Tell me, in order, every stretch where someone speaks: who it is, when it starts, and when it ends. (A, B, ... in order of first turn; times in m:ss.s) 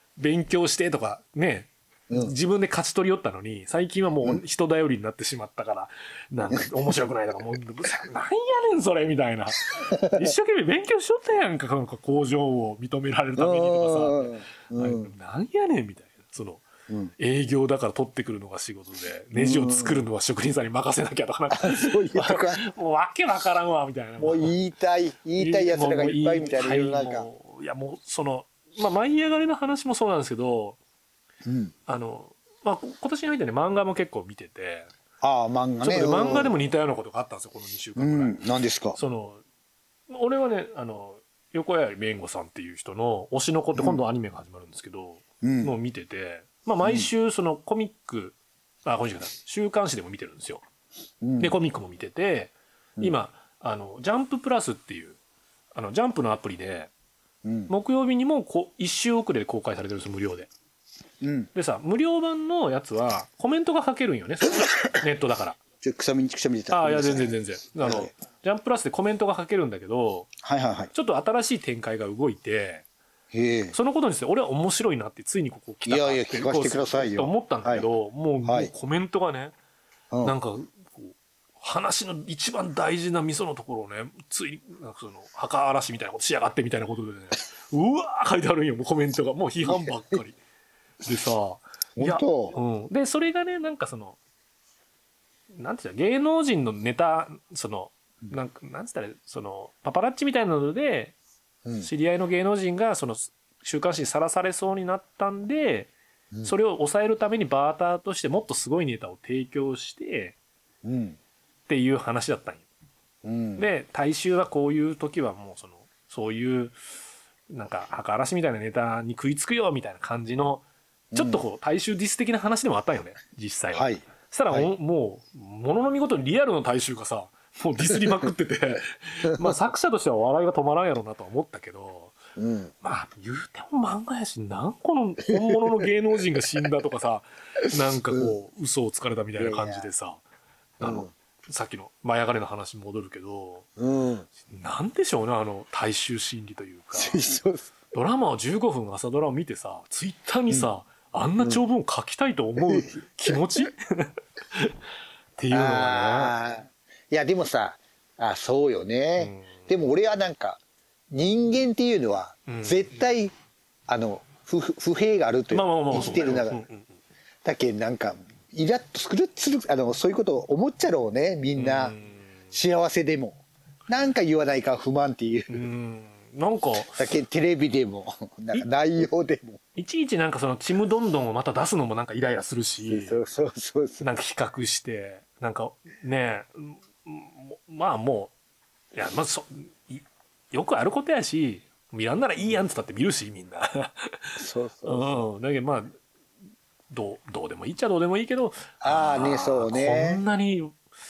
0:00.2-0:16.6 A
0:09.7-0:10.3 B
0:13.4-0:15.1 B
0:17.2-0:24.5 A
0:19.3-0:20.0 B
0:21.5-0:22.6 B
0:24.2-0:27.3 B
0:25.4-0:30.8 A
0:31.4-0:31.7 B
0:31.9-0:34.9 A
0:35.2-0:36.5 B
0:35.8-0:38.4 A
0:38.0-0:39.0 B
0:38.9-0:39.4 A
0:40.1-0:50.6 A
0:45.4-0:45.8 B
0:46.8-0:47.1 B
0:51.2-0:51.6 B
0:51.4-0:55.2 A
0:55.8-0:56.9 A
0:57.4-0:57.7 B
0:57.7-1:00.5 A
1:01.2-1:01.5 B
1:01.5-1:05.6 A
1:05.8-1:08.1 B
1:06.7-1:10.3 A
1:10.4-1:10.9 B
1:10.9-1:12.8 A
1:13.3-1:13.8 B
1:13.7-1:19.5 A
1:15.8-1:17.9 B
1:18.4-1:18.7 B
1:20.2-1:30.4 A
1:29.6-1:30.0 B
1:31.0-1:34.2 A
1:32.0-1:32.6 B
1:35.6-1:41.2 A
1:41.8-1:45.9 A
1:46.4-1:50.4 A
1:50.8-1:51.2 B
1:51.7-1:52.6 A
1:53.2-1:53.7 B
1:53.6-1:56.8 A
1:57.5-2:00.6 A
2:01.1-2:01.4 B
2:01.2-2:12.2 A
2:03.7-2:04.7 B
2:12.4-2:12.7 B
2:12.8-2:20.2 A
2:19.4-2:19.9 B
2:20.8-2:23.7 A
2:20.8-2:21.1 B
2:23.8-2:24.3 B
2:24.5-2:27.2 A
2:26.9-2:27.7 B
2:27.9-2:34.8 A
2:32.6-2:33.4 B
2:35.4-2:36.4 A
2:35.5-2:43.3 B
2:39.2-2:39.6 A
2:42.5-2:42.9 A
2:43.9-2:46.7 B
2:45.5-2:46.9 A
2:47.4-2:52.0 B
2:51.6-2:52.3 A
2:52.5-2:55.6 B
2:55.5-2:57.1 A
2:57.0-2:59.6 B
2:59.8-3:03.2 A
3:02.9-3:04.1 B
3:04.0-3:08.3 A
3:08.9-3:16.0 A
3:14.4-3:15.2 B
3:16.9-3:20.8 A
3:18.8-3:20.2 B